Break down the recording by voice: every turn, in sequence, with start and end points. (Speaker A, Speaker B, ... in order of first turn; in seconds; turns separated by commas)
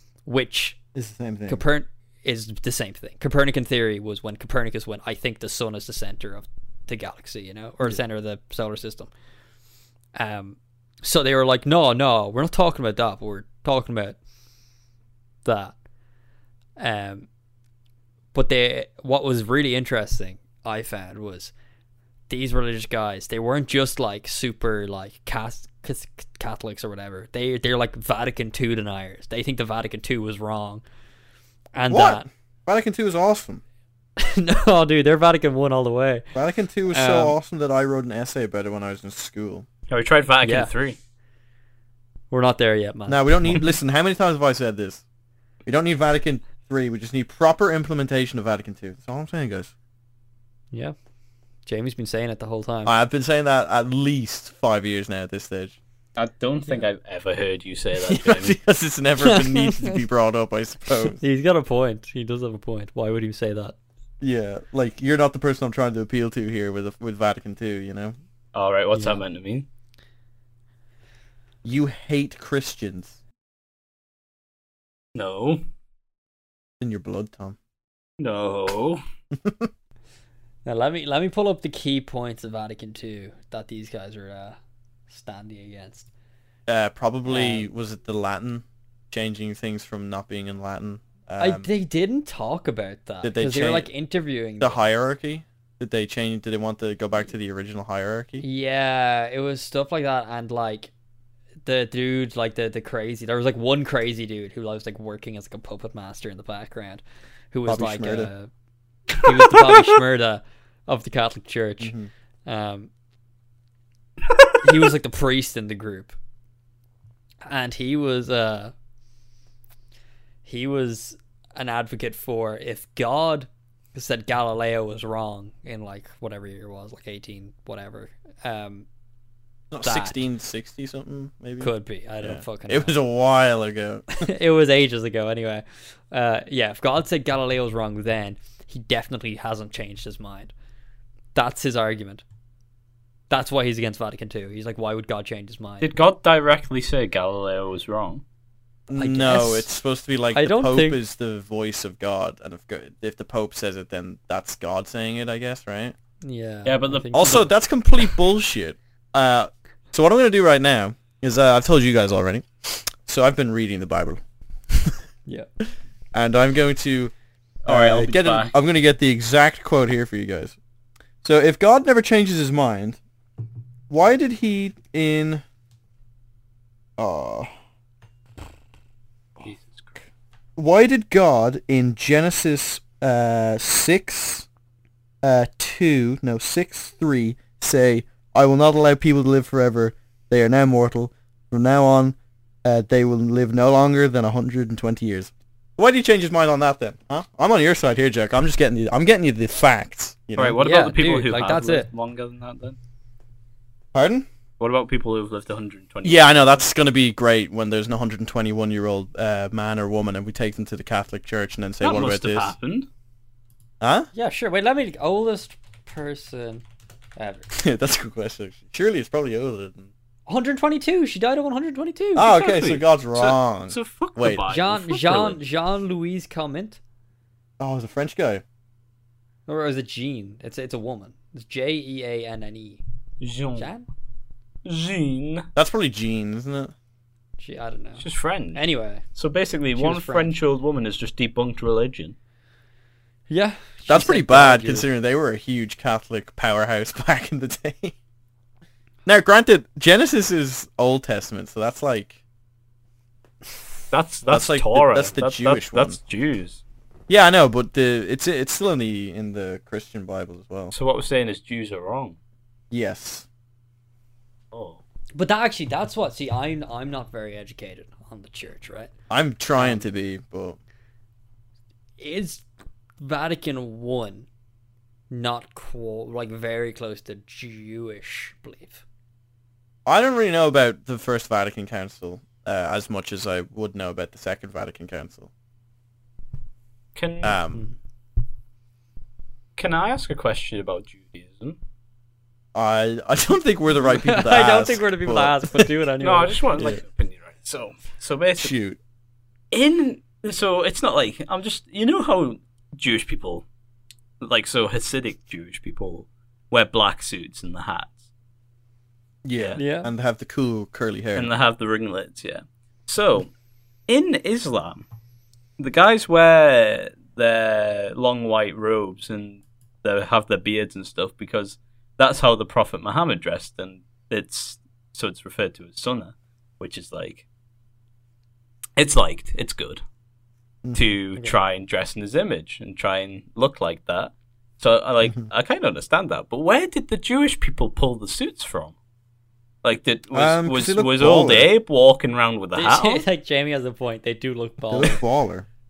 Speaker A: 0.2-0.8, Speaker B: 0.9-1.6, Speaker A: 1.5-9.1, Speaker A: 10.2-14.2, Speaker A: 15.4-15.8, Speaker A: 16.8-17.3, Speaker A: 18.3-21.5, Speaker A: 22.3-30.8, Speaker A: 31.8-32.2, Speaker B: 31.9-33.6, Speaker A: 34.2-36.2, Speaker B: 36.3-39.6, Speaker A: 36.9-37.4, Speaker C: 39.9-41.0, Speaker A: 40.4-40.7, Speaker A: 42.3-43.7, Speaker B: 43.1-45.0, Speaker B: 45.6-49.7, Speaker A: 51.6-52.9, Speaker B: 52.9-55.8, Speaker C: 56.2-58.6, Speaker B: 58.0-61.2, Speaker A: 59.2-60.0, Speaker A: 61.2-63.7, Speaker B: 64.2-68.1, Speaker C: 68.5-69.7, Speaker A: 68.9-69.2, Speaker B: 71.6-73.2, Speaker C: 75.1-75.6, Speaker B: 76.8-77.6, Speaker C: 78.2-79.0, Speaker B: 79.3-79.7, Speaker A: 80.6-84.6, Speaker A: 85.1-86.1, Speaker B: 86.7-91.7, Speaker A: 87.3-87.7, Speaker A: 91.4-94.8, Speaker B: 93.2-93.9, Speaker B: 94.6-98.4, Speaker A: 98.4-100.9, Speaker A: 101.6-108.5, Speaker B: 107.7-108.3, Speaker A: 109.1-111.9, Speaker B: 111.8-112.1, Speaker A: 112.5-112.9, Speaker A: 114.6-116.2, Speaker A: 117.4-118.7, Speaker A: 120.4-128.8, Speaker B: 129.7-134.2, Speaker A: 129.8-130.2, Speaker A: 131.6-133.0, Speaker A: 134.1-140.5, Speaker A: 141.3-142.2, Speaker A: 143.3-145.9, Speaker C: 145.8-148.2, Speaker B: 148.9-155.9, Speaker A: 148.9-149.7, Speaker A: 150.3-151.0, Speaker A: 156.2-157.5, Speaker C: 156.6-157.4, Speaker B: 157.1-164.9, Speaker B: 166.1-167.1, Speaker C: 167.6-168.5, Speaker B: 167.7-170.6, Speaker B: 171.2-173.0, Speaker B: 173.9-175.4, Speaker B: 177.0-177.5, Speaker C: 179.4-180.0, Speaker B: 180.6-184.5, Speaker B: 185.2-200.6, Speaker C: 200.3-202.8, Speaker A: 200.6-201.9, Speaker B: 203.9-204.3, Speaker C: 204.6-206.4, Speaker B: 206.0-212.5, Speaker C: 211.8-212.9, Speaker B: 213.8-214.1, Speaker A: 214.1-216.6, Speaker A: 217.2-217.5, Speaker B: 217.5-219.9, Speaker A: 220.3-222.3, Speaker B: 222.1-224.4, Speaker C: 222.2-225.4, Speaker A: 224.5-226.8, Speaker B: 227.6-228.4, Speaker A: 229.5-232.8, Speaker C: 233.2-233.7, Speaker A: 233.6-233.9, Speaker C: 234.6-235.5, Speaker B: 235.6-236.7, Speaker A: 237.4-239.0, Speaker C: 238.0-238.6, Speaker C: 239.1-242.1, Speaker A: 239.8-240.3, Speaker A: 243.3-244.9, Speaker B: 243.9-247.9, Speaker B: 249.0-252.2, Speaker C: 253.9-256.6, Speaker B: 254.3-256.0, Speaker B: 257.1-260.7, Speaker C: 260.7-262.2, Speaker B: 262.7-263.2, Speaker C: 264.5-264.8, Speaker A: 265.1-268.9, Speaker B: 269.1-270.6, Speaker A: 269.6-269.9, Speaker A: 272.0-272.4, Speaker A: 273.0-274.3, Speaker A: 275.1-278.8, Speaker B: 279.9-285.3, Speaker C: 286.9-287.4, Speaker B: 287.2-287.6, Speaker C: 289.6-291.6, Speaker B: 292.5-295.7, Speaker A: 293.7-296.8, Speaker C: 296.0-298.6, Speaker B: 296.5-296.8, Speaker B: 298.4-298.8, Speaker C: 299.5-303.4, Speaker C: 304.2-308.0, Speaker B: 309.2-311.3, Speaker C: 309.4-309.6, Speaker A: 309.6-309.9, Speaker C: 311.1-313.3, Speaker C: 313.9-314.8, Speaker C: 315.6-327.2, Speaker C: 328.8-329.8, Speaker B: 330.6-330.9, Speaker C: 330.7-338.7, Speaker C: 339.6-343.1, Speaker B: 340.1-341.5, Speaker A: 342.5-345.0, Speaker B: 344.7-345.4